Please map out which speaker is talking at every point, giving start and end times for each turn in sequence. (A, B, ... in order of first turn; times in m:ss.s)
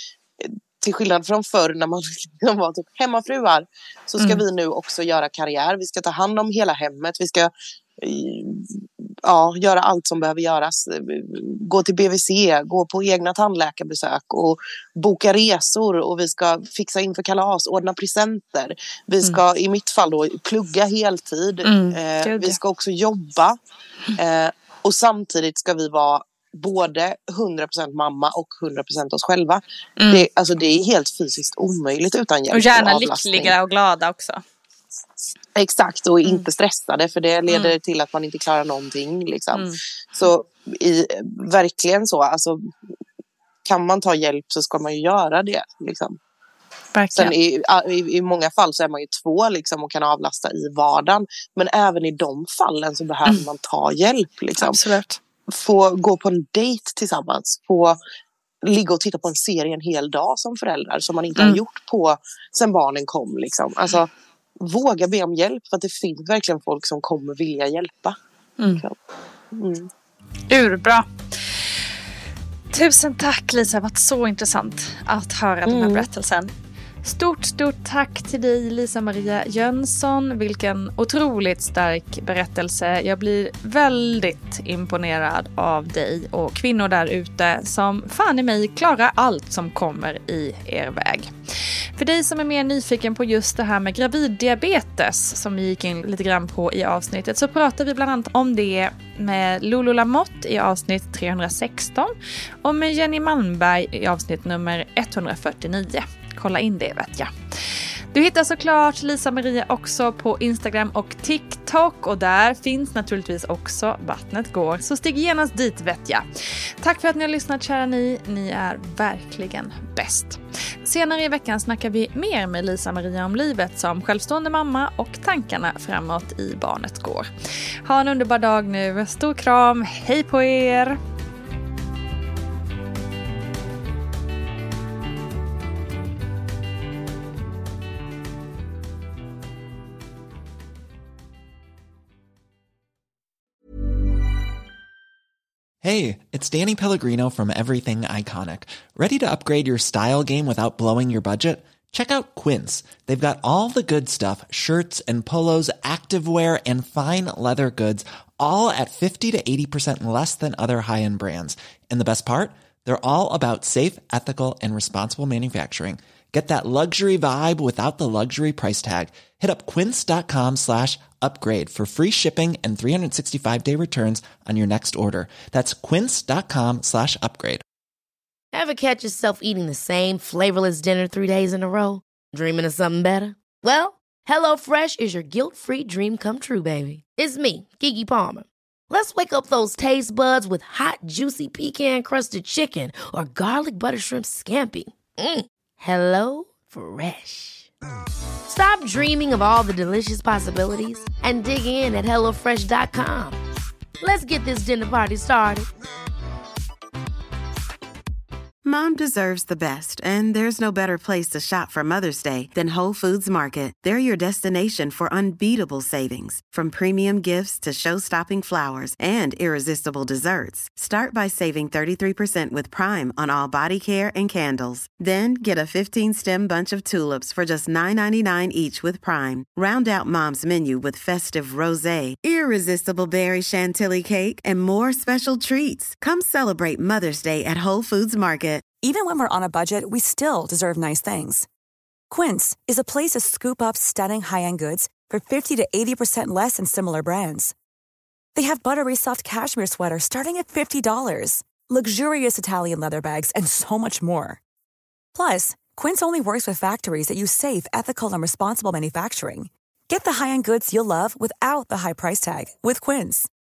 0:00.4-0:23.6 A
0:21.6-0:22.6 B
0:24.2-0:33.5 A
0:30.0-0:30.2 B
0:32.5-0:34.4 B
0:35.6-0:42.7 A
0:37.5-0:37.7 B
0:39.5-0:39.8 B
0:43.6-0:46.2 A
0:46.9-0:47.3 B
0:47.2-0:54.8 A
0:54.6-0:55.2 B
0:55.5-0:58.0 A
0:58.6-1:08.2 A
1:09.5-1:09.9 A
1:10.5-1:11.7 B
1:12.7-1:16.5 B
1:15.6-1:16.1 A
1:17.0-2:07.3 B
2:07.8-2:11.0 B
2:25.8-2:57.6 C
2:58.5-3:17.7 D
3:18.5-3:23.4 D
3:24.0-3:25.7 D
3:28.6-3:58.6 E
3:58.8-4:01.4 F
4:02.1-4:07.5 F
4:08.3-4:14.4 F
4:15.1-4:23.3 F